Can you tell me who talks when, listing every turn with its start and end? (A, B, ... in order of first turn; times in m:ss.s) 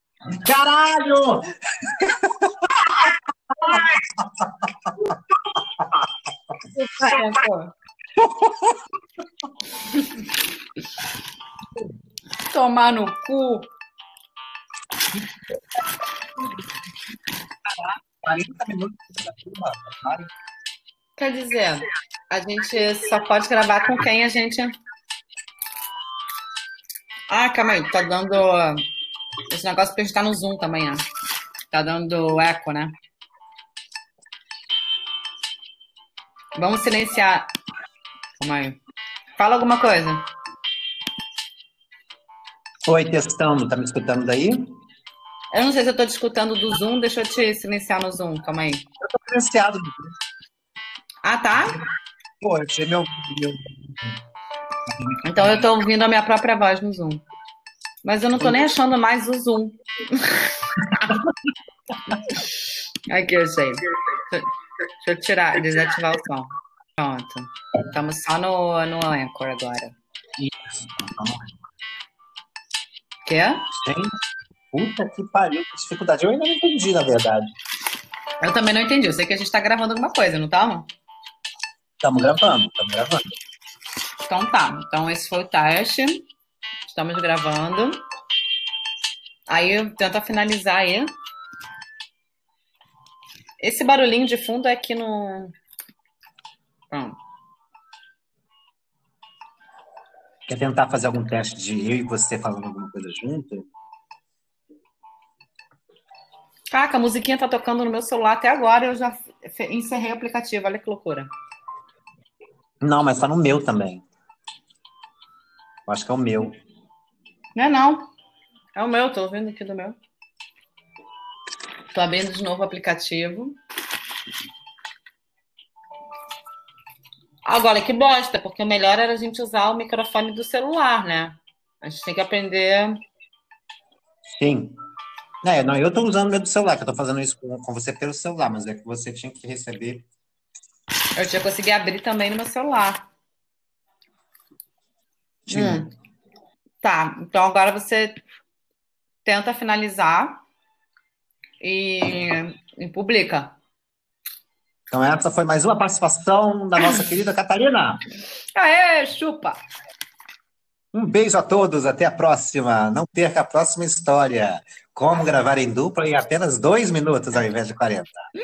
0:00.3-0:05.1 A
0:06.7-0:07.7 B
0:08.2-0:08.8 A
0:09.9-0:10.2 B
0:12.5-0:13.7 B
0:17.8-0:20.3 A
0:21.2-0:24.7 B
0:27.3-0:28.8 B
0:29.5-0:31.0 B
0:31.7-0:32.9 B
0:36.6-0:37.5 B
0:38.4-0:38.8 B
0:39.4-0:40.2 B
0:42.8-0:44.8 A
0:45.5-0:48.8 B
0:49.0-0:50.1 A
0:51.2-0:51.8 B
0:52.4-0:54.1 A
0:54.9-0:55.6 A
0:55.2-0:57.2 B
0:58.0-1:01.2 B
1:01.1-1:01.3 A
1:02.2-1:04.5 B
1:05.0-1:09.9 B
1:10.4-1:11.5 A
1:13.2-1:13.7 B
1:13.7-1:14.1 A
1:14.7-1:17.5 A
1:18.4-1:20.9 B
1:22.0-1:23.3 A
1:24.3-1:26.2 B
1:26.9-1:28.0 B
1:29.5-1:31.1 B
1:33.6-1:35.6 B
1:36.9-1:37.2 B
1:40.5-1:43.7 A
1:46.7-1:51.3 B
1:52.8-1:54.1 A
1:55.9-1:56.6 A
1:57.6-1:58.1 B
1:58.8-2:00.0 B
2:01.9-2:03.6 B
2:07.4-2:13.0 B
2:14.3-2:14.8 A
2:15.4-2:20.1 A
2:21.2-2:23.1 B
2:25.5-2:25.9 A
2:25.5-2:25.9 B
2:26.8-2:28.2 B
2:29.2-2:30.4 B
2:31.6-2:33.6 B
2:34.9-2:38.0 A
2:38.6-2:39.6 B
2:40.9-2:48.3 A